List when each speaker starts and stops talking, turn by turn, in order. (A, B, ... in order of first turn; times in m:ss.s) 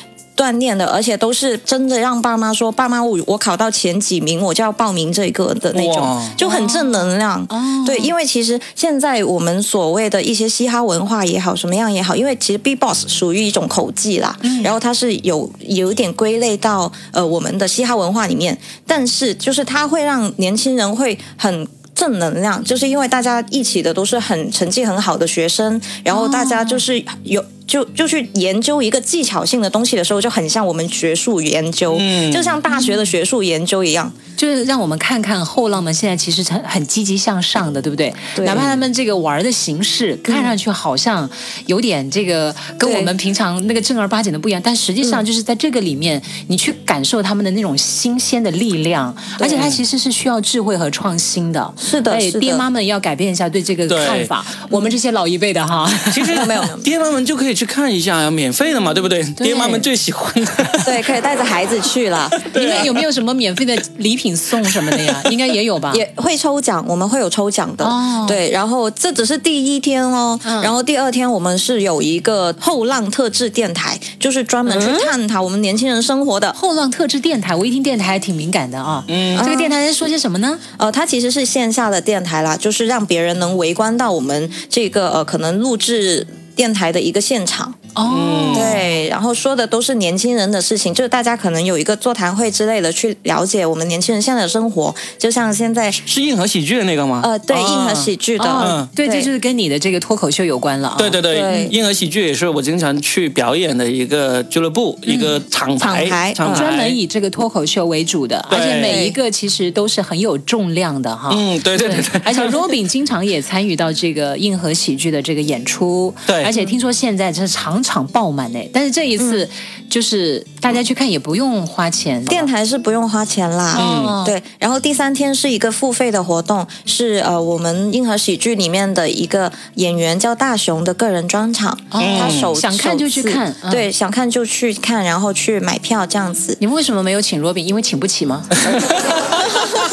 0:00.4-0:34.2 A
0:05.7-0:06.4 B
0:06.4-0:08.1 C
0:14.4-0:14.8 C
0:26.1-0:26.8 C
0:31.9-0:32.6 B
0:32.7-0:33.1 C
0:34.4-0:56.5 C
0:38.4-0:38.7 A
0:40.3-0:40.6 A
0:42.8-0:43.1 A
0:49.4-0:49.7 A
0:49.6-0:49.8 B
0:51.8-0:52.7 A
0:53.9-0:54.3 B
0:54.7-0:55.0 A
0:56.1-1:00.9 B
0:56.2-0:56.9 A
0:59.4-0:59.9 C
1:00.8-1:02.8 A
1:02.4-1:03.0 B
1:02.5-1:06.0 C
1:04.9-1:05.2 B
1:05.9-1:16.6 A
1:07.8-1:08.4 C
1:10.4-1:10.8 C
1:14.7-1:15.1 C
1:16.6-1:20.6 C
1:19.1-1:19.5 B
1:19.3-1:19.8 A
1:20.8-1:27.8 A
1:28.0-1:29.0 C
1:28.1-1:28.8 B
1:28.5-1:36.0 A
1:36.0-1:38.9 B
1:37.2-1:39.3 A
1:38.4-1:41.8 C
1:41.0-1:47.0 B
1:41.3-1:41.8 A
1:45.1-1:46.7 A
1:46.5-2:02.5 C
1:48.5-1:49.0 B
1:48.9-1:49.2 A
1:51.3-1:52.8 B
1:56.3-1:56.5 B
1:59.2-1:59.5 A
2:02.3-2:16.6 A
2:03.7-2:04.4 C
2:03.8-2:04.2 B
2:11.9-2:13.9 C
2:12.0-2:12.6 B
2:16.6-2:18.7 C
2:18.7-2:19.7 A